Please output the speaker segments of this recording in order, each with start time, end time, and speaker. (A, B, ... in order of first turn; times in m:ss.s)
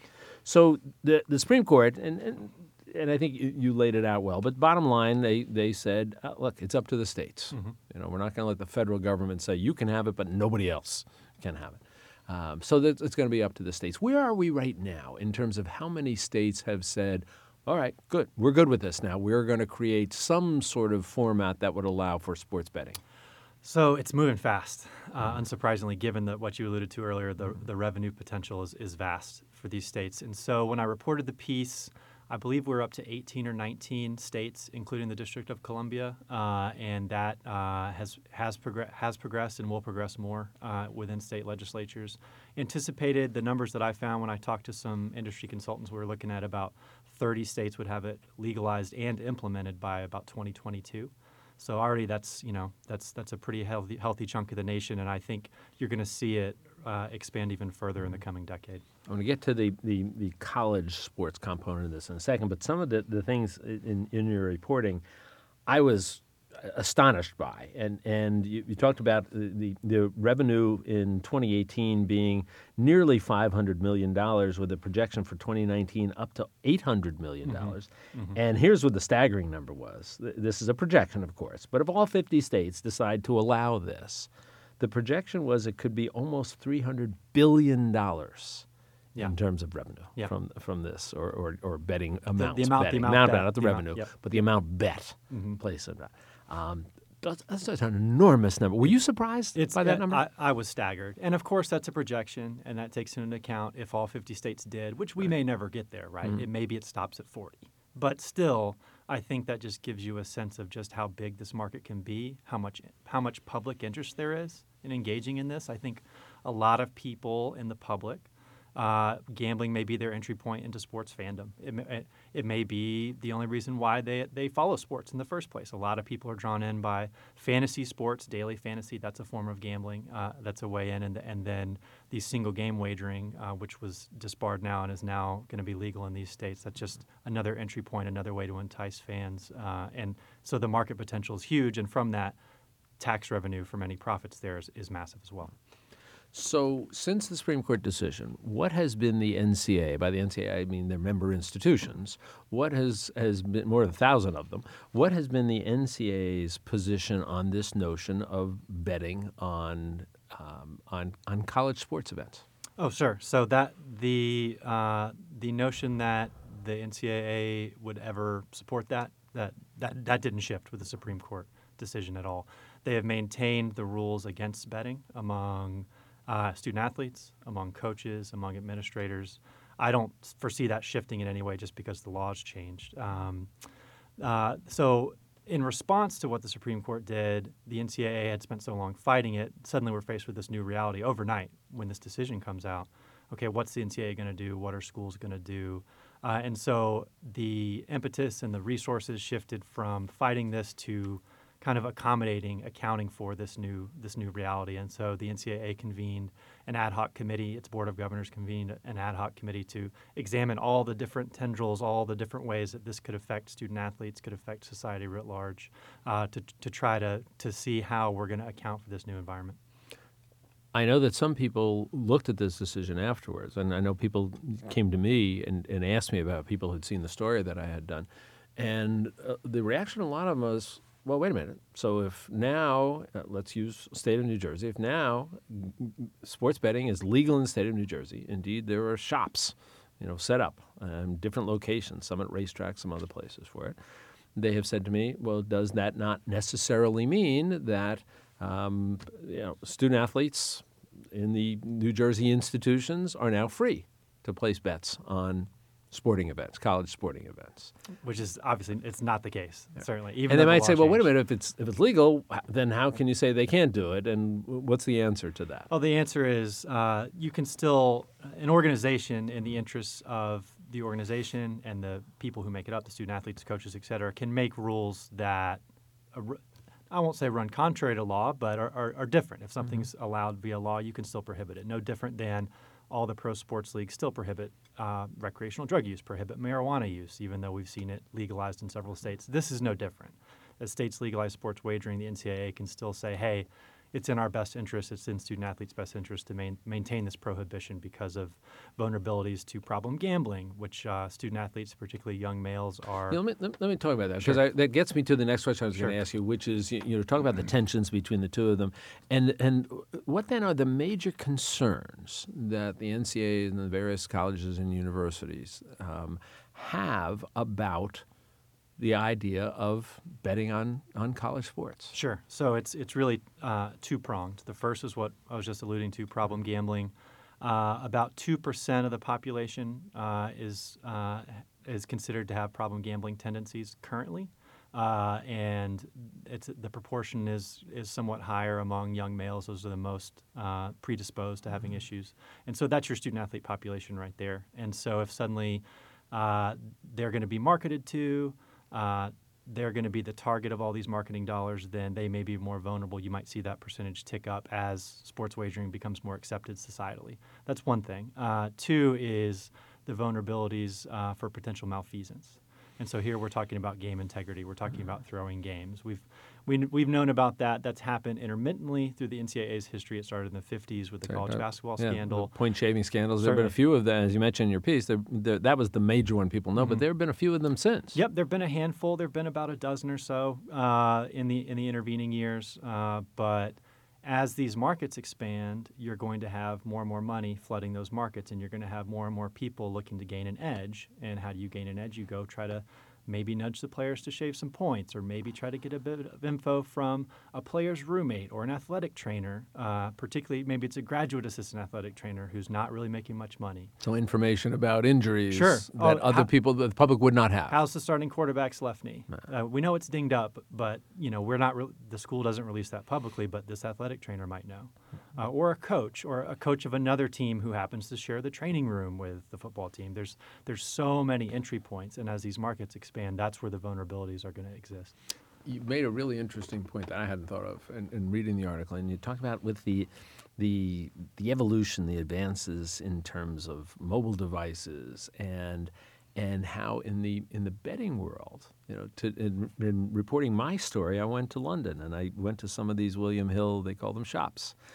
0:00.4-0:23.0 A
0:07.5-0:07.8 B
0:23.6-0:58.8 B
0:59.1-1:05.0 A
1:05.7-1:28.7 A
1:17.5-1:18.4 B
1:29.2-1:40.2 A
1:32.4-1:34.1 B
1:35.3-1:35.6 B
1:39.6-2:22.4 B
2:23.0-2:25.5 B
2:26.3-2:42.4 A
2:42.8-3:03.5 B
3:04.2-3:39.6 B
3:40.7-4:03.8 A
4:04.4-4:17.7 A
4:18.0-4:21.1 B
4:20.3-4:25.7 A
4:25.7-5:03.2 B
5:03.1-5:18.0 A
5:18.8-5:22.0 A
5:21.9-6:12.3 B
6:11.1-6:18.0 A
6:13.2-6:13.6 B
6:16.6-6:16.8 B
6:17.9-6:43.7 B
6:43.8-6:47.6 A
6:45.3-6:46.3 B
6:47.5-7:04.9 B
7:05.4-7:24.6 A